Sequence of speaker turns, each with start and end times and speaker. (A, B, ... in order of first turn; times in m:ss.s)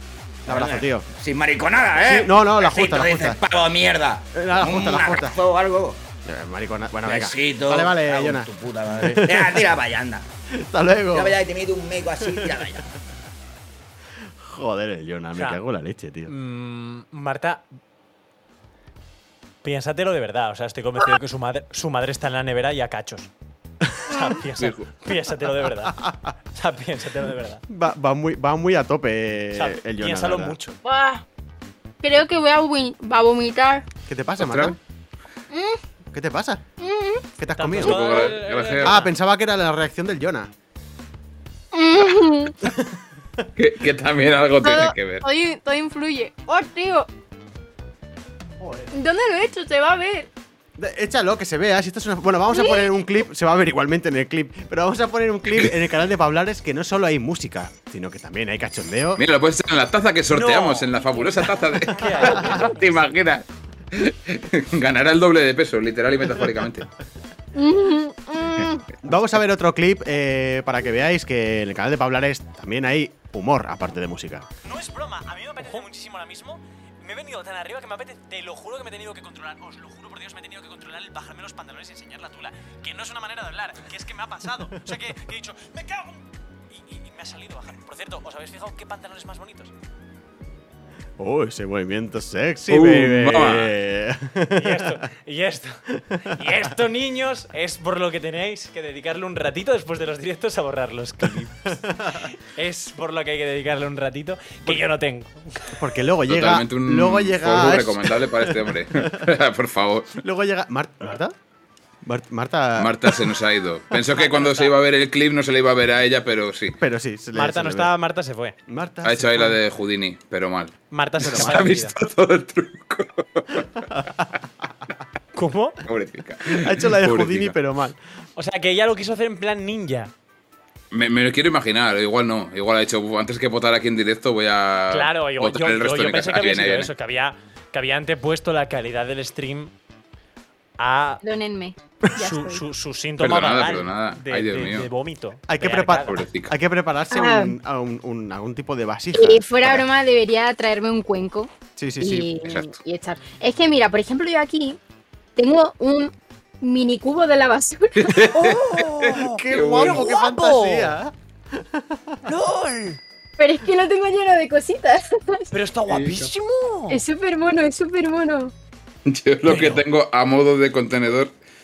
0:00.4-0:01.1 A
0:00.5-0:06.0 B
0:02.0-0:03.4 A
0:04.3-0:05.4 A
0:06.2-0:08.5 A
0:07.0-0:10.3 B
0:09.0-0:09.6 A
0:10.5-0:11.4 A
0:11.1-0:12.8 B
0:14.4-0:16.3 A
0:15.3-0:15.6 C
0:16.2-0:17.6 C
0:19.6-0:23.3 C
0:24.0-0:26.0 C
0:24.6-0:24.9 D
0:26.0-0:26.3 A
0:26.5-0:27.6 C
0:27.7-0:30.6 A
0:29.5-0:30.8 C
0:30.8-0:31.2 E
0:32.0-0:33.8 E
0:34.1-0:34.8 A
0:34.4-0:34.8 D
0:35.5-0:35.8 E
0:36.1-0:36.6 A
0:36.8-0:37.2 E
0:37.4-0:38.3 A
0:37.6-0:39.1 C
0:37.8-0:38.9 D
0:38.8-0:40.5 A
0:41.7-0:42.6 E
0:43.6-0:45.2 D
0:44.6-0:47.1 E
0:48.6-0:48.9 A
0:48.9-0:50.3 E
0:50.8-0:59.2 A
0:52.5-0:52.8 E
0:59.2-1:06.9 D
1:00.3-1:01.2 C
1:01.9-1:02.6 C
1:07.5-1:08.8 E
1:09.0-1:14.5 A
1:14.6-1:29.7 C
1:31.2-1:35.0 A
1:32.7-1:33.7 D
1:34.5-1:45.8 C
1:36.0-1:36.4 A
1:41.8-1:42.3 A
1:45.8-1:49.2 A
1:46.3-1:50.2 D
1:50.2-1:51.3 A
1:52.0-1:53.2 A
1:52.8-1:56.8 D
1:54.2-1:54.7 C
1:56.8-1:57.9 A
1:57.3-1:58.6 C
1:58.7-1:59.6 A
1:59.0-2:03.9 D
2:00.9-2:01.9 C
2:01.2-2:01.7 A
2:05.3-2:05.8 C
2:05.8-2:07.6 D
2:06.4-2:08.0 A
2:08.4-2:10.1 C
2:10.9-2:16.9 D
2:14.9-2:19.7 C
2:20.8-2:21.2 C
2:21.2-2:22.6 E
2:22.2-2:26.2 C
2:23.2-2:24.9 D
2:25.5-2:29.8 A
2:26.1-2:26.5 D
2:27.1-2:27.5 E
2:29.1-2:34.8 E
2:31.8-2:32.3 A
2:32.4-2:32.7 D
2:35.4-2:38.5 E
2:38.0-2:40.1 D
2:38.4-2:40.9 C
2:39.2-2:42.2 A
2:42.2-2:43.0 C
2:43.4-2:45.5 E
2:45.5-2:47.0 C
2:45.9-2:46.3 D
2:46.9-2:48.5 E
2:49.0-2:51.3 D
2:49.5-2:49.8 C